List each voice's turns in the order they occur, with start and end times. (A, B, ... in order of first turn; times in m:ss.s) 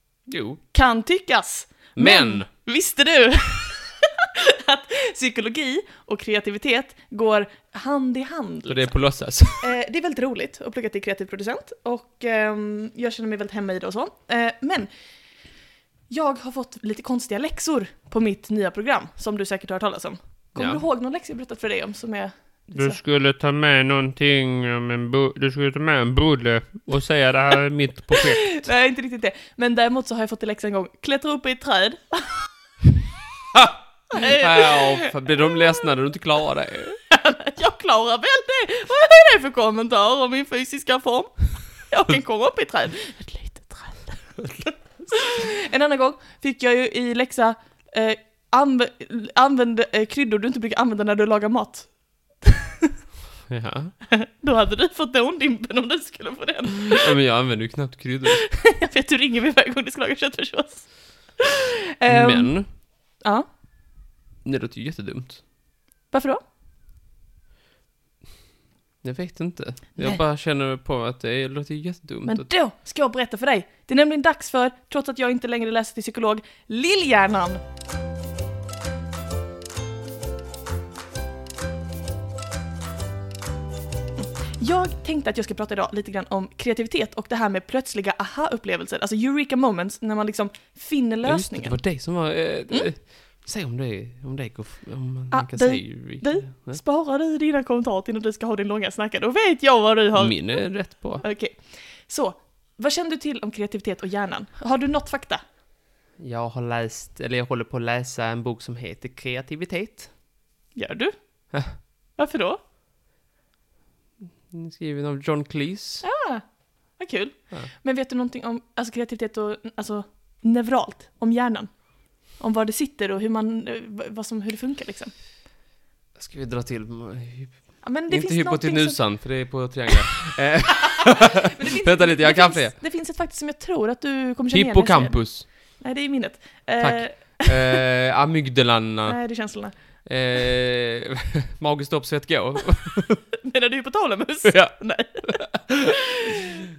0:00.3-0:00.6 A
0:00.7-0:09.0 B
0:02.0-0:02.5 A
0:08.7-0:09.7 A
0:09.6-0:14.9 B
0:16.1-0:23.0 B
0:20.6-0:20.8 A
0:22.8-0:28.6 C
0:28.2-0:32.5 B
0:33.5-0:37.0 A
0:34.1-0:35.1 B
0:37.1-0:51.9 B
0:52.4-0:52.9 B
0:53.5-0:53.9 A
0:54.1-0:57.2 B
0:56.9-0:58.4 A
0:58.3-1:03.5 B
1:02.1-1:02.7 A
1:04.4-1:05.4 A
1:06.1-1:06.4 B
1:09.0-1:12.5 A
1:12.2-1:17.6 B
1:24.2-1:31.8 B
1:31.2-1:36.8 A
1:35.3-1:40.6 B
1:40.2-1:41.2 A
1:41.2-1:45.4 B
1:46.2-1:50.1 A
1:50.8-1:51.2 B
1:52.2-1:52.6 B
1:54.5-1:56.0 A
1:56.0-1:56.4 B
1:57.0-2:01.8 B
2:02.4-2:05.1 B
2:06.2-2:12.8 A
2:07.8-2:09.0 B
2:10.9-2:17.8 B
2:14.5-2:15.5 A
2:16.8-2:19.2 A
2:19.1-2:19.7 B
2:20.0-2:23.2 A
2:23.4-2:26.7 B
2:24.5-2:26.0 A